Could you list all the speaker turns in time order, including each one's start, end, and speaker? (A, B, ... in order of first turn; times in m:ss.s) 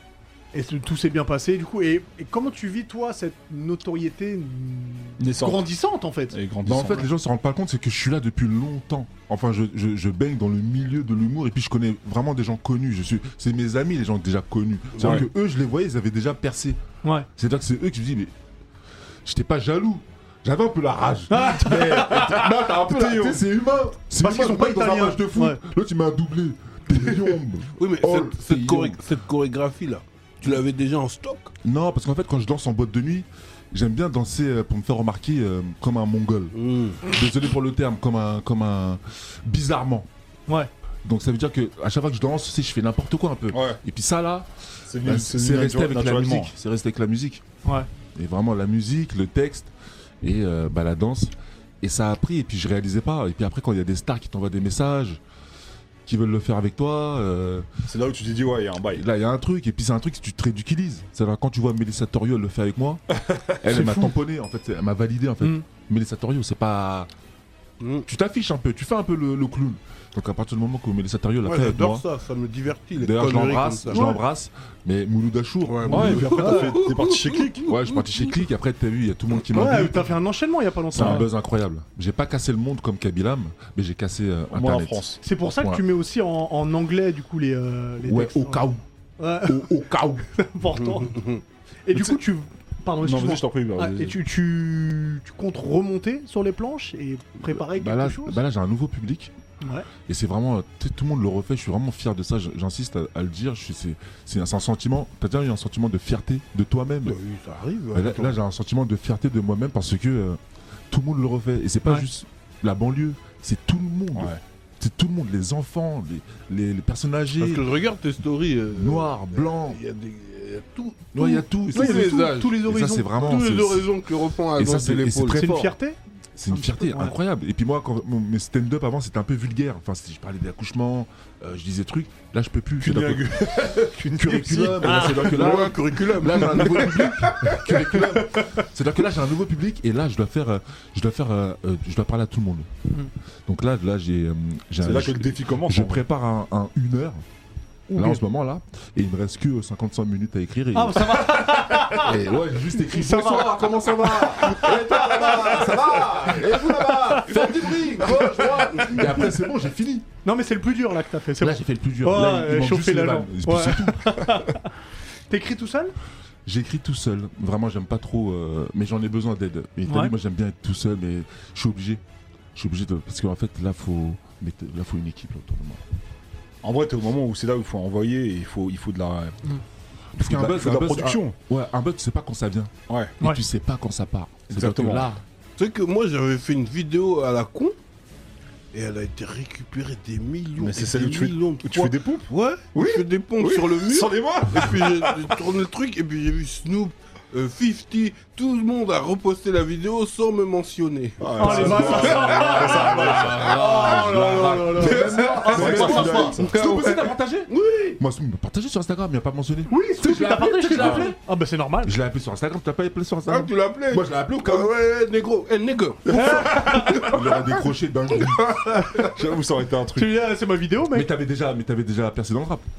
0:00.5-0:06.4 A
0:05.2-0:05.7 B
0:06.3-0:07.1 B
0:06.6-0:16.8 C
0:15.0-0:15.3 B
0:17.4-0:18.3 C
0:19.2-0:29.0 C
0:21.3-0:22.3 A
0:21.8-0:23.4 B
0:24.2-0:25.6 A
0:27.8-0:31.5 D
0:31.6-0:40.1 C
0:36.5-0:37.0 D
0:41.0-0:44.5 C
0:43.5-0:43.8 B
0:44.9-0:46.5 B
0:45.0-0:47.4 C
0:48.2-0:55.2 C
0:56.1-0:57.7 C
0:57.9-0:59.0 B
0:58.9-1:03.0 C
1:03.6-1:07.1 C
1:03.7-1:04.1 A
1:05.4-1:05.6 A
1:07.8-1:08.1 D
1:08.1-1:12.0 C
1:11.4-1:14.2 D
1:13.0-1:16.4 C
1:13.9-1:14.2 A
1:15.6-1:18.5 D
1:15.9-1:17.7 B
1:16.0-1:16.8 A
1:17.7-1:20.2 C
1:19.5-1:21.3 A
1:20.9-1:25.8 C
1:24.5-1:25.2 B
1:25.2-1:29.8 A
1:28.0-1:28.8 C
1:29.4-1:30.3 C
1:30.3-1:31.2 A
1:30.8-1:31.4 D
1:31.9-1:38.4 A
1:33.0-1:34.2 B
1:37.7-1:39.3 C
1:39.6-1:39.9 A
1:40.1-1:47.2 C
1:47.0-1:48.4 D
1:47.9-1:50.4 C
1:50.9-1:57.7 C
1:54.1-1:54.4 B
1:57.4-2:05.7 D
1:58.7-1:59.8 C
2:01.1-2:03.9 C
2:01.7-2:03.1 A
2:04.6-2:05.7 C
2:05.3-2:06.0 A
2:06.4-2:13.5 C
2:06.5-2:07.1 A
2:12.8-2:15.2 B
2:14.0-2:22.7 C
2:14.8-2:15.4 A
2:15.0-2:17.6 D
2:23.5-2:27.2 C
2:24.8-2:26.0 B
2:27.9-2:40.1 C
2:27.9-2:28.2 A
2:30.7-2:32.2 A
2:32.8-2:36.0 A
2:36.8-2:39.3 A
2:40.2-2:44.7 A
2:41.4-2:44.5 C
2:45.3-2:45.9 A
2:46.5-2:52.0 C
2:49.9-2:50.1 A
2:52.5-2:55.8 C
2:56.6-2:59.4 B
3:00.2-3:05.2 C
3:00.2-3:01.4 B
3:02.9-3:03.2 B
3:04.5-3:05.1 B
3:05.6-3:07.8 D
3:08.7-3:28.0 D
3:10.6-3:15.4 B
3:21.2-3:23.5 B
3:21.4-3:26.4 A
3:21.5-3:31.2 C
3:25.5-3:26.9 B
3:29.7-3:32.0 A
3:30.8-3:31.1 B
3:31.8-3:34.7 C
3:33.3-3:37.5 D
3:36.1-3:37.1 B
3:36.1-3:37.0 A
3:36.6-3:38.7 C
3:38.2-3:39.1 D
3:38.9-3:40.2 B
3:40.0-3:41.1 A
3:40.9-3:42.6 C